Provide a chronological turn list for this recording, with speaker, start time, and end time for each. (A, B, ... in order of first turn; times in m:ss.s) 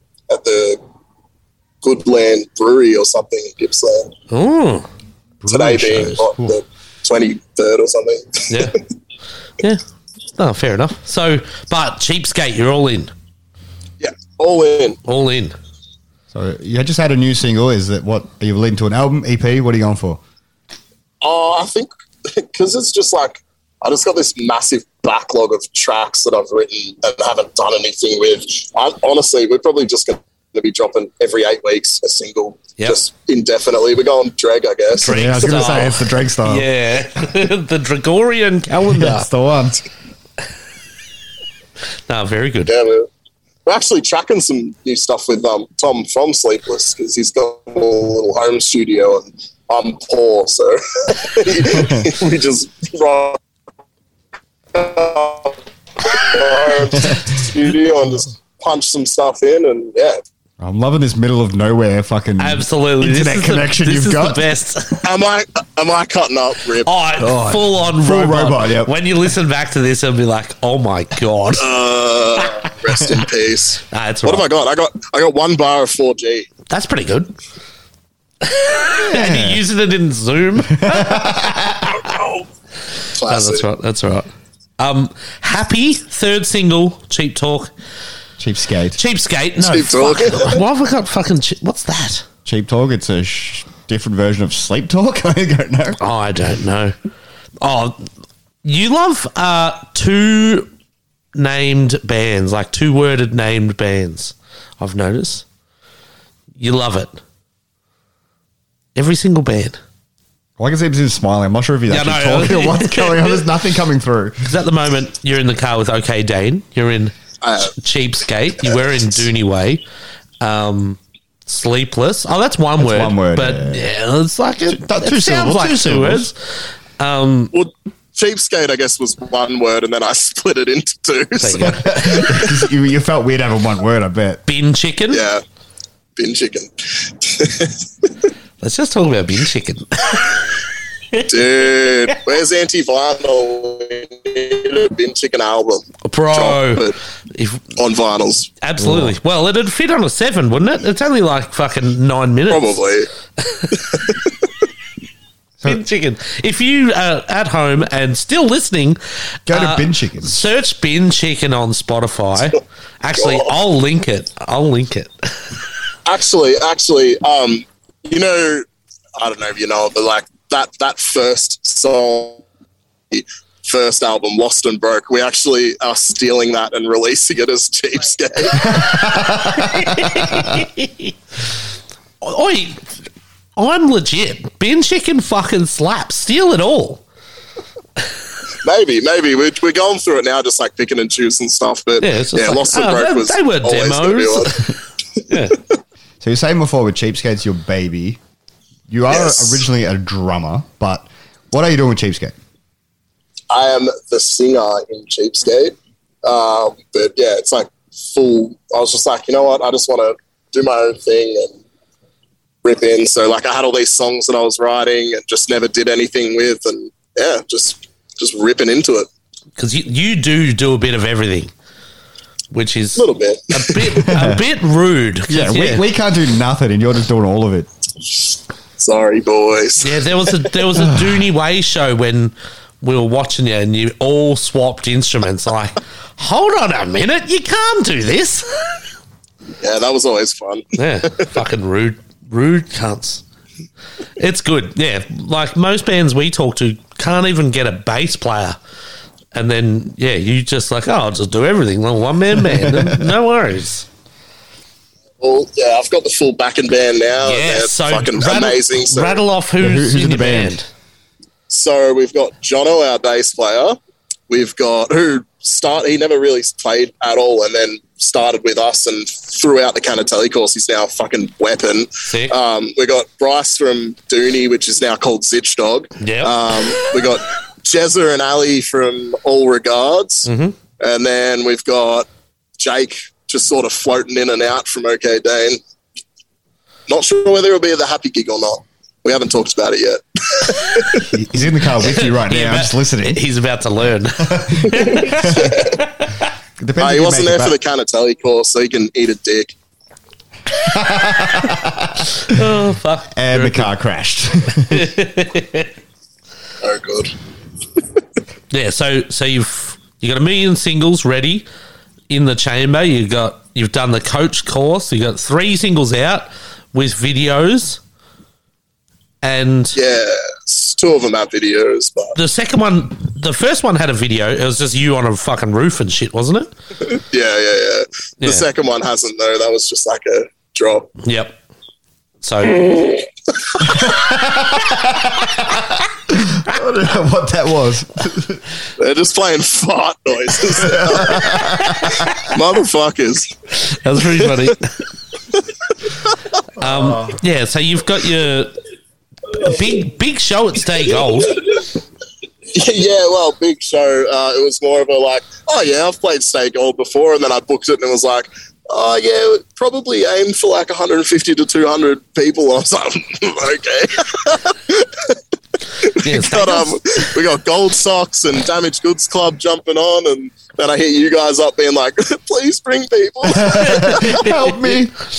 0:00.3-0:00.8 A
0:01.8-0:04.1 A
0:04.3-0:04.9 B
0:05.4-0:06.6 C
0:05.5-0:08.8 A
0:08.5-0:08.8 B
0:10.4-0:13.1 B
0:14.0-0:15.0 A
0:15.0-0:15.6 B
0:16.3-0:20.2 C
0:21.2-0:35.8 A
0:35.0-0:39.3 B
0:35.1-0:36.7 C
0:38.8-0:39.8 C
0:42.1-0:42.7 B
0:42.7-0:43.1 A
0:43.7-0:53.4 A
0:51.8-0:52.0 C
0:54.7-1:00.2 A
1:00.6-1:04.4 C
1:02.4-1:05.1 B
1:05.0-1:06.9 A
1:06.8-1:11.7 B
1:07.2-1:08.9 C
1:11.6-1:16.5 A
1:13.9-1:14.5 B
1:16.7-1:17.4 B
1:18.4-1:21.6 B
1:19.0-1:19.6 C
1:20.7-1:21.8 C
1:21.9-1:22.4 A
1:23.1-1:23.7 A
1:23.3-1:27.7 B
1:28.4-1:29.0 C
1:29.0-1:32.2 B
1:29.6-1:30.6 A
1:32.5-1:36.0 C
1:36.0-1:36.9 B
1:37.6-1:38.0 B
1:38.6-1:40.7 B
1:41.4-1:45.4 B
1:46.6-1:47.2 B
1:49.0-1:49.8 B
1:50.6-1:54.5 C
1:51.9-1:53.4 B
1:54.4-1:57.1 B
1:57.4-1:57.8 A
1:57.6-1:59.8 B
2:00.4-2:06.4 B
2:02.8-2:03.9 C
2:04.7-2:06.3 C
2:07.0-2:07.5 B
2:07.5-2:12.5 A
2:11.4-2:12.2 B
2:11.6-2:14.4 C
2:14.5-2:15.2 B
2:15.1-2:15.4 A
2:16.2-2:18.1 A
2:18.6-2:20.4 B
2:21.2-2:27.0 A
2:26.0-2:27.6 B
2:27.8-2:28.5 A
2:28.6-2:32.8 B
2:28.8-2:29.2 C
2:32.5-2:33.1 A
2:33.7-2:34.3 A
2:35.6-2:39.0 B
2:39.5-2:40.4 C
2:39.5-2:45.4 B
2:43.2-2:43.5 A
2:46.1-2:48.7 A
2:49.2-2:52.4 A
2:53.1-2:58.7 A
2:58.6-3:00.6 C
2:59.5-3:01.1 B
3:02.2-3:02.8 B
3:03.6-3:07.0 B
3:08.6-3:14.7 A
3:12.0-3:14.7 B
3:15.3-3:15.6 B
3:16.2-3:18.2 C
3:18.9-3:22.4 C
3:19.1-3:19.6 A
3:23.5-3:31.6 A
3:32.6-3:39.1 A
3:39.6-3:41.5 B
3:42.5-3:45.8 B
3:43.0-3:44.1 A
3:44.1-3:44.4 C
3:45.3-3:47.7 C
3:48.8-3:50.0 A
3:49.8-3:58.8 B
3:50.8-3:51.2 C
3:59.6-4:01.2 A
4:00.8-4:03.2 B
4:04.2-4:08.6 B
4:09.3-4:13.9 B
4:12.5-4:13.0 C
4:15.2-4:19.2 A
4:17.2-4:20.7 B
4:19.6-4:20.6 C
4:21.5-4:23.8 A
4:24.3-4:40.3 A
4:32.1-4:32.4 B
4:36.0-4:36.4 B
4:40.3-4:40.6 B
4:40.8-4:42.1 A
4:42.6-4:45.6 A
4:46.9-4:51.1 A
4:51.1-4:53.2 C
4:51.8-4:56.2 B
4:54.2-4:55.6 C
4:54.8-4:55.8 A
4:56.6-4:57.6 C
4:56.8-4:59.5 A
5:00.5-5:02.4 C
5:02.3-5:03.7 B
5:03.1-5:04.9 C
5:04.7-5:05.7 B
5:06.6-5:07.2 A
5:08.5-5:11.5 B
5:12.1-5:17.8 B
5:19.2-5:19.8 B
5:19.8-5:22.2 A
5:22.2-5:26.5 B
5:26.9-5:30.9 A
5:28.2-5:28.5 B
5:31.0-5:31.4 B
5:32.2-5:32.9 B
5:33.7-5:38.4 C
5:38.8-5:41.4 A
5:40.6-5:42.2 C
5:42.2-5:43.3 A
5:43.6-5:44.7 B
5:46.6-5:48.6 B
5:46.6-5:47.2 C
5:49.3-5:51.4 B
5:49.4-5:49.6 A
5:50.9-5:51.7 A
5:52.5-6:05.2 A
6:05.8-6:14.2 A
6:06.0-6:07.0 B
6:13.3-6:14.9 C
6:13.4-6:14.7 B